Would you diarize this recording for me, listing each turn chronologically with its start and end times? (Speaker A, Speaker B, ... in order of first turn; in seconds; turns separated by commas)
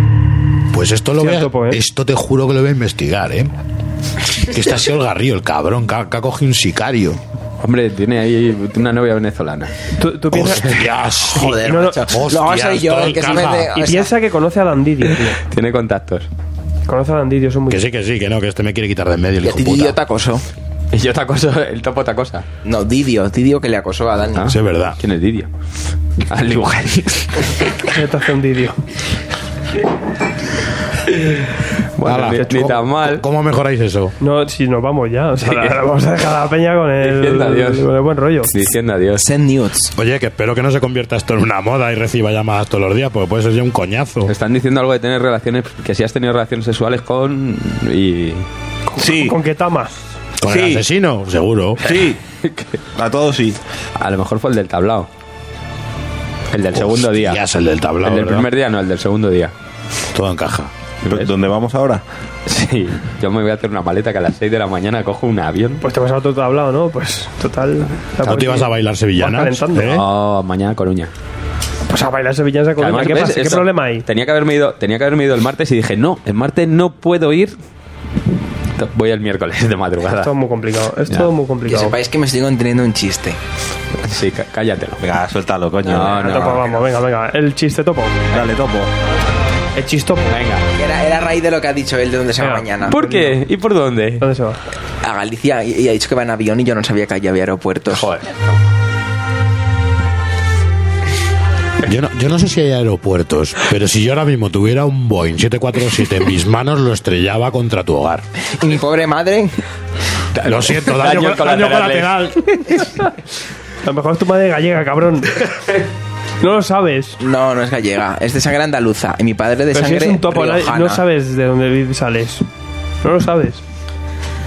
Speaker A: 0.7-3.5, Speaker B: 1.2-1.8, Speaker A: 4.4-7.2, Speaker C: 7.6-9.7, Speaker B: 9.9-10.8, Speaker A: 10.3-13.8, Speaker D: 11.3-14.1, Speaker B: 11.6-12.0, Speaker B: 13.7-15.4, Speaker C: 15.4-16.3, Speaker B: 16.9-17.8, Speaker A: 17.7-20.0, Speaker D: 19.4-20.4, Speaker C: 20.9-22.4, Speaker D: 22.6-24.5, Speaker C: 24.4-25.5, Speaker A: 24.4-25.0, Speaker C: 26.3-27.4, Speaker B: 27.8-28.8, Speaker C: 32.0-33.2, Speaker A: 32.0-34.1, Speaker B: 34.2-38.5, Speaker C: 35.4-35.8, Speaker C: 37.0-37.9, Speaker C: 38.5-39.2, Speaker D: 39.2-39.9, Speaker A: 40.0-44.3, Speaker C: 44.3-48.5, Speaker B: 48.9-49.9, Speaker E: 49.0-49.4, Speaker A: 50.4-51.8, Speaker E: 50.4-50.8, Speaker E: 51.8-52.2, Speaker C: 52.4-52.7, Speaker E: 52.9-53.6, Speaker C: 54.0-55.1, Speaker C: 56.5-57.4, Speaker A: 56.7-58.5, Speaker C: 58.0-59.5, Speaker A: 60.1-60.7, Speaker C: 61.0-61.3, Speaker E: 61.0-62.0, Speaker C: 62.5-65.8, Speaker B: 65.8-70.0, Speaker A: 68.2-70.0, Speaker C: 69.8-71.1, Speaker B: 71.9-74.0, Speaker C: 72.8-77.6, Speaker C: 78.8-80.3, Speaker B: 80.1-81.9, Speaker D: 81.6-83.4, Speaker C: 84.0-85.0, Speaker E: 85.0-86.6, Speaker C: 85.8-86.7, Speaker B: 86.1-88.3, Speaker E: 88.3-88.9, Speaker B: 89.7-90.3, Speaker C: 90.3-90.7, Speaker D: 90.8-92.9, Speaker B: 92.4-93.4, Speaker C: 92.9-94.2, Speaker B: 94.2-94.6, Speaker D: 95.0-98.1, Speaker C: 97.9-98.6, Speaker A: 101.8-108.2, Speaker D: 108.5-109.5, Speaker C: 110.3-112.2, Speaker A: 110.4-112.6, Speaker B: 113.8-115.5, Speaker B: 116.4-117.2, Speaker D: 117.2-121.0, Speaker B: 119.7-122.5, Speaker B: 123.0-123.6